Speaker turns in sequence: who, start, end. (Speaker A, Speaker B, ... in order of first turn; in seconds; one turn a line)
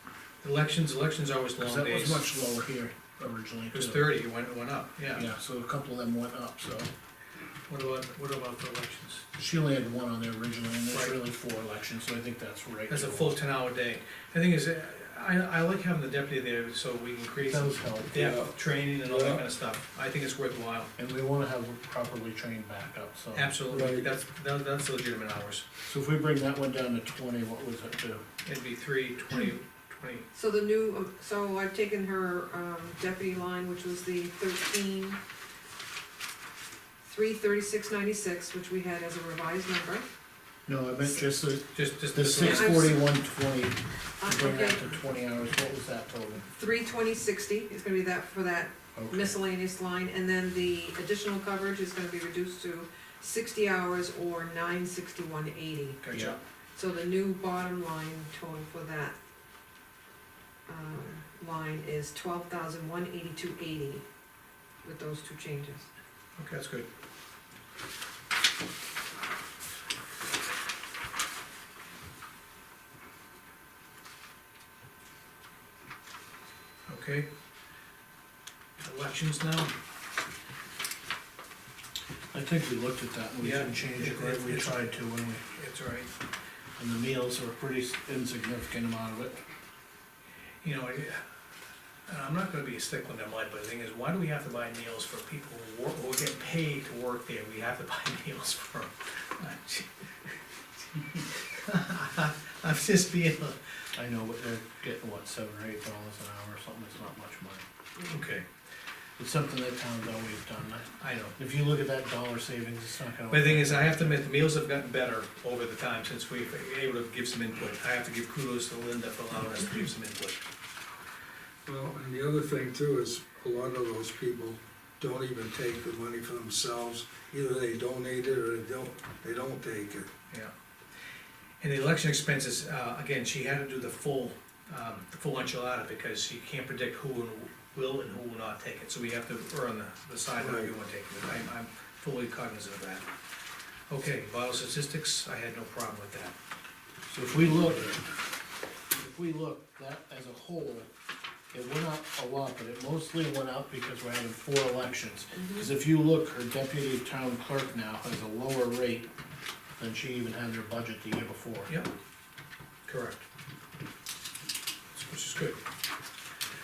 Speaker A: 0.4-2.2
Speaker B: 1.6-4.1
Speaker A: 3.7-5.3
Speaker B: 5.1-6.9
Speaker A: 7.7-9.3
Speaker B: 9.4-13.4
Speaker A: 10.9-11.2
Speaker A: 12.9-20.9
Speaker B: 17.4-18.2
Speaker C: 18.1-19.4
Speaker B: 21.0-24.0
Speaker A: 23.3-25.7
Speaker C: 23.7-24.1
Speaker B: 25.9-28.2
Speaker A: 28.4-30.3
Speaker D: 30.3-35.2
Speaker D: 37.0-40.1
Speaker B: 40.7-46.5
Speaker A: 41.7-42.9
Speaker D: 42.4-43.0
Speaker D: 44.2-44.9
Speaker D: 46.5-56.0
Speaker B: 49.0-49.4
Speaker A: 56.0-56.4
Speaker B: 56.1-56.4
Speaker D: 56.7-59.2
Speaker D: 60.7-64.0
Speaker D: 64.8-65.9
Speaker A: 66.4-66.9
Speaker A: 76.9-77.3
Speaker A: 78.8-79.7
Speaker B: 82.3-85.4
Speaker A: 83.4-84.9
Speaker A: 85.5-86.1
Speaker B: 86.8-89.4
Speaker A: 90.6-91.2
Speaker A: 92.1-99.9
Speaker A: 101.2-103.6
Speaker B: 103.9-107.6
Speaker A: 108.0-108.5
Speaker B: 109.2-114.2
Speaker A: 111.0-111.3
Speaker A: 113.3-120.4
Speaker C: 121.7-130.1
Speaker A: 131.6-143.1
Speaker C: 140.4-140.7
Speaker A: 143.9-146.4
Speaker B: 147.1-148.1
Speaker B: 149.0-150.9
Speaker B: 151.5-159.1
Speaker D: 155.3-155.7
Speaker B: 159.8-161.7
Speaker A: 162.9-163.2
Speaker A: 164.9-165.6